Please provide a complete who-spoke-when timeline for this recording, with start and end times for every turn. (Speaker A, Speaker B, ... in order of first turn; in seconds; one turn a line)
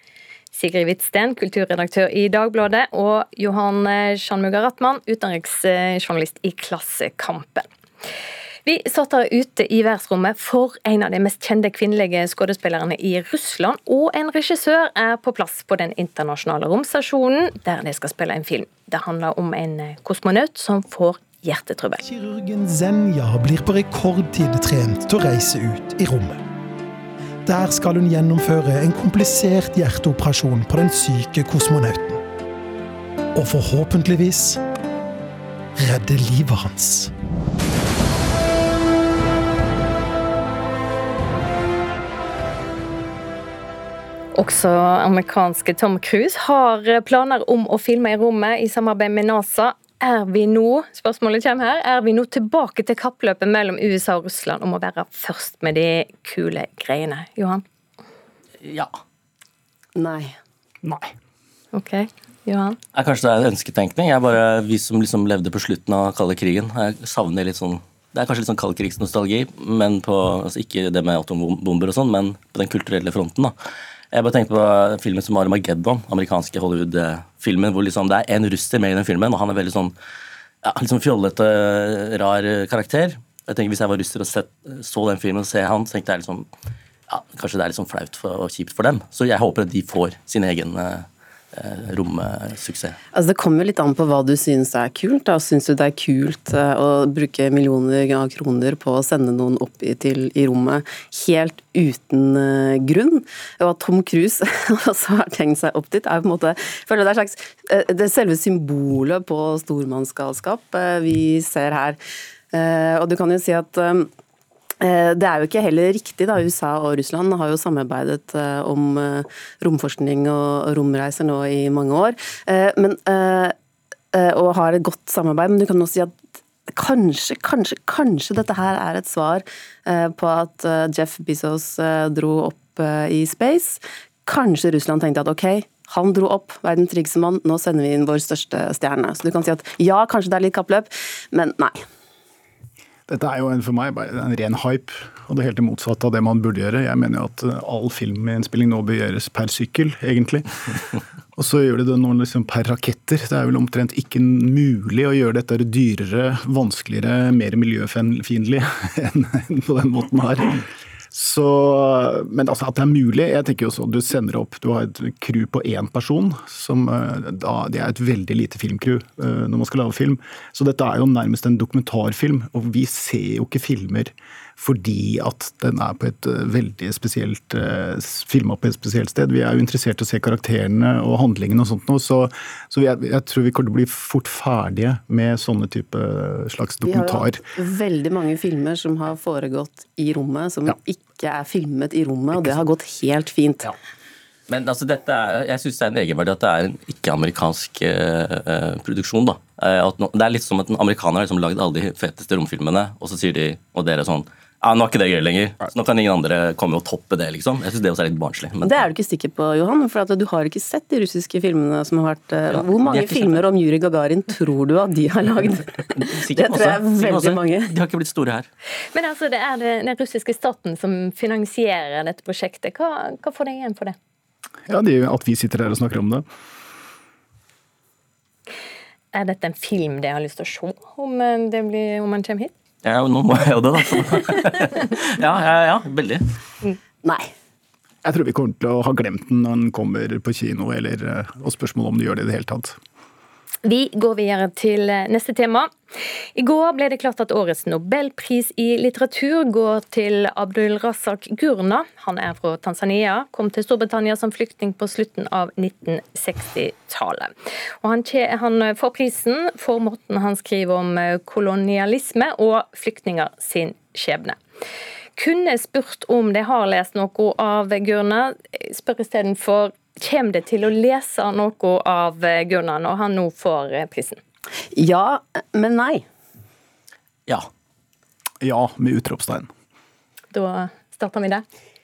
Speaker A: 0.5-7.7
Speaker A: 8.6-22.0
Speaker B: 22.0-26.4
Speaker B: 27.4-32.2
Speaker B: 33.3-34.6
Speaker B: 35.8-37.1
Speaker A: 44.3-57.6
Speaker C: 58.6-58.9
Speaker D: 59.9-60.3
Speaker E: 60.8-61.1
Speaker A: 61.7-62.8
Speaker C: 62.9-73.5
Speaker C: 74.1-80.0
Speaker C: 80.6-86.5
Speaker C: 87.1-93.0
Speaker D: 93.1-112.0
Speaker D: 112.5-114.1
Speaker D: 114.8-123.5
Speaker D: 124.1-126.1
Speaker D: 126.7-141.8
Speaker E: 143.1-150.4
Speaker E: 151.3-187.4
Speaker D: 186.8-193.7
Speaker C: 194.5-208.9
Speaker D: 208.6-217.7
Speaker C: 212.5-213.4
Speaker C: 215.9-218.5
Speaker A: 218.9-223.9
Speaker E: 224.7-226.2
Speaker A: 229.1-232.5
Speaker C: 232.8-236.2
Speaker D: 237.0-237.3
Speaker E: 238.0-242.8
Speaker A: 243.6-245.7
Speaker A: 246.3-257.3
Speaker A: 257.8-264.4
Speaker A: 265.1-274.2
Speaker D: 274.7-276.0
Speaker E: 278.4-279.5
Speaker A: 280.3-281.4